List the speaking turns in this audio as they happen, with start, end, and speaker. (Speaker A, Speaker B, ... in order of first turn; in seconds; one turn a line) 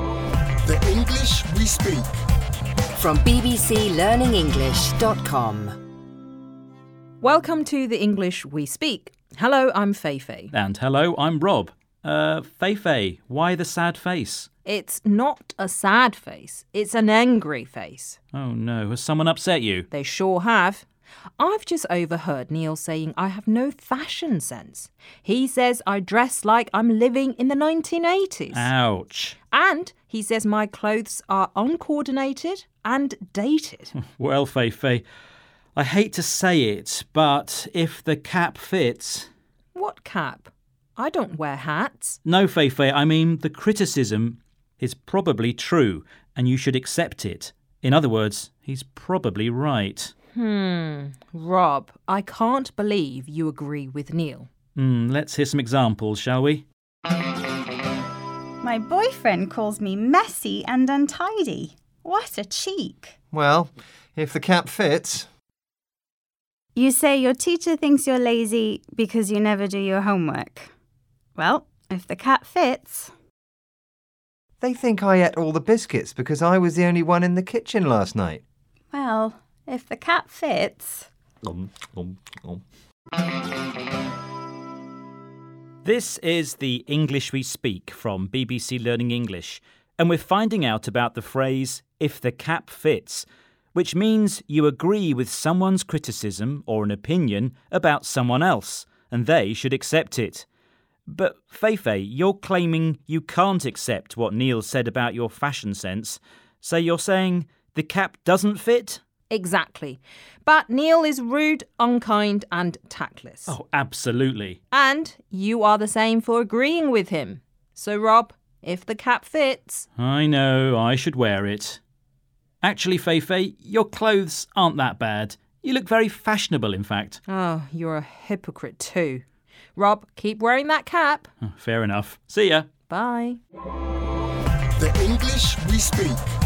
Speaker A: 0.6-2.1
Speaker B: 3.0-5.8
Speaker C: 7.2-10.5
Speaker D: 10.5-14.5
Speaker C: 14.7-18.2
Speaker D: 18.3-19.9
Speaker C: 19.9-20.9
Speaker C: 21.4-28.7
Speaker D: 28.5-29.4
Speaker C: 29.5-34.0
Speaker D: 34.0-35.0
Speaker D: 35.8-39.3
Speaker C: 39.7-42.2
Speaker D: 42.2-50.1
Speaker C: 50.3-54.5
Speaker D: 54.8-56.6
Speaker E: 58.6-63.1
Speaker F: 63.3-65.3
Speaker E: 66.8-70.7
Speaker E: 71.4-73.1
Speaker F: 74.6-78.4
Speaker E: 78.9-81.1
Speaker F: 81.4-82.6
Speaker D: 85.8-100.5
Speaker D: 101.1-109.0
Speaker C: 109.3-113.6
Speaker D: 113.5-114.6
Speaker C: 114.7-119.9
Speaker D: 120.0-121.8
Speaker D: 122.6-127.2
Speaker C: 127.3-129.2
Speaker C: 129.8-131.3
Speaker D: 131.4-132.7
Speaker C: 132.9-133.4
Speaker A: 134.8-136.2